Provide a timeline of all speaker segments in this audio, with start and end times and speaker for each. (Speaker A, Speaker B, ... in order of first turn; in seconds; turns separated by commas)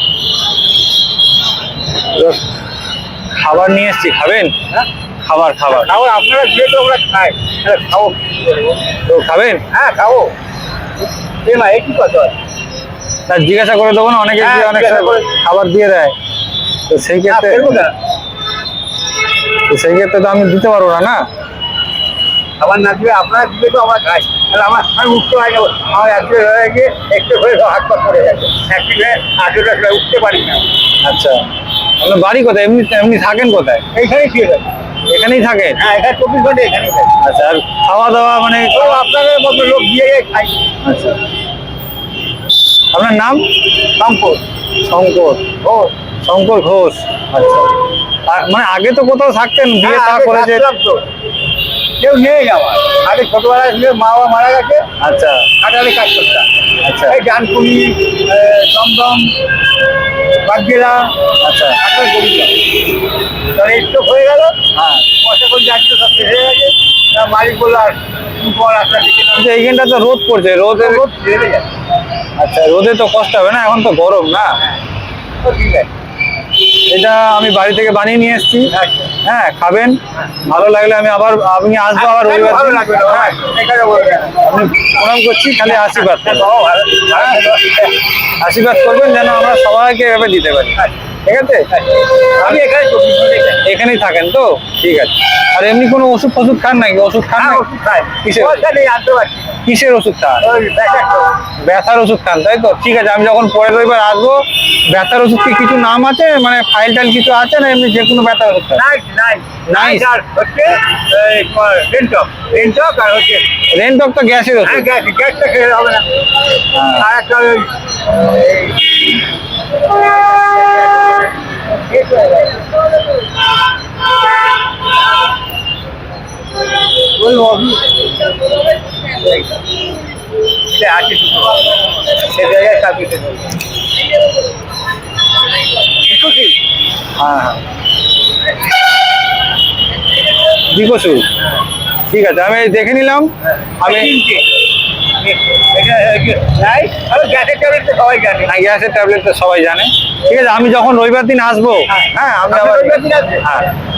Speaker A: 2.1-2.4, Speaker A: 3.3-4.5, Speaker A: 5.2-5.9, Speaker B: 5.7-8.8, Speaker A: 9.1-9.6, Speaker B: 9.7-10.3, Speaker B: 11.4-12.3, Speaker A: 13.3-16.1, Speaker B: 14.4-15.3, Speaker A: 16.9-17.9, Speaker B: 17.3-17.9, Speaker A: 19.7-21.2, Speaker B: 22.6-30.7, Speaker A: 31.0-31.5, Speaker A: 32.0-33.8, Speaker B: 33.9-34.7, Speaker A: 35.1-35.8, Speaker B: 35.8-37.1, Speaker A: 37.2-39.0, Speaker B: 38.7-40.6, Speaker A: 40.8-41.2, Speaker A: 42.9-43.5, Speaker B: 44.0-44.4, Speaker A: 44.8-45.5, Speaker B: 45.6-45.9, Speaker A: 46.2-47.7, Speaker A: 48.3-50.6, Speaker B: 49.8-51.1, Speaker B: 52.0-54.9, Speaker A: 55.0-55.5, Speaker B: 55.6-56.5, Speaker A: 56.8-57.2, Speaker B: 57.1-59.3, Speaker B: 60.4-62.6, Speaker A: 61.4-61.8, Speaker B: 63.5-64.6, Speaker A: 64.7-65.1, Speaker B: 65.1-69.5, Speaker A: 69.3-71.0, Speaker B: 70.8-71.7, Speaker A: 72.4-74.6, Speaker B: 75.4-75.9, Speaker A: 76.9-83.4, Speaker B: 78.7-79.1, Speaker B: 82.0-84.5, Speaker A: 84.4-86.5, Speaker B: 85.6-88.0, Speaker A: 87.1-87.6, Speaker A: 88.4-91.7, Speaker B: 91.7-93.6, Speaker A: 93.6-97.6, Speaker B: 97.4-99.6, Speaker A: 98.2-98.6, Speaker A: 99.7-100.4, Speaker B: 100.4-101.3, Speaker A: 101.6-108.8, Speaker B: 108.8-113.5, Speaker A: 109.7-110.1, Speaker A: 113.7-114.9, Speaker B: 114.6-116.1, Speaker A: 116.7-117.0, Speaker B: 116.8-118.8, Speaker B: 121.7-122.7, Speaker B: 127.2-127.9, Speaker B: 129.1-129.5, Speaker B: 130.7-133.6, Speaker B: 136.0-136.6, Speaker A: 137.1-137.6, Speaker A: 140.7-141.3, Speaker A: 142.1-144.1, Speaker B: 143.8-144.5, Speaker B: 145.2-148.5, Speaker A: 148.4-153.7, Speaker B: 151.9-153.4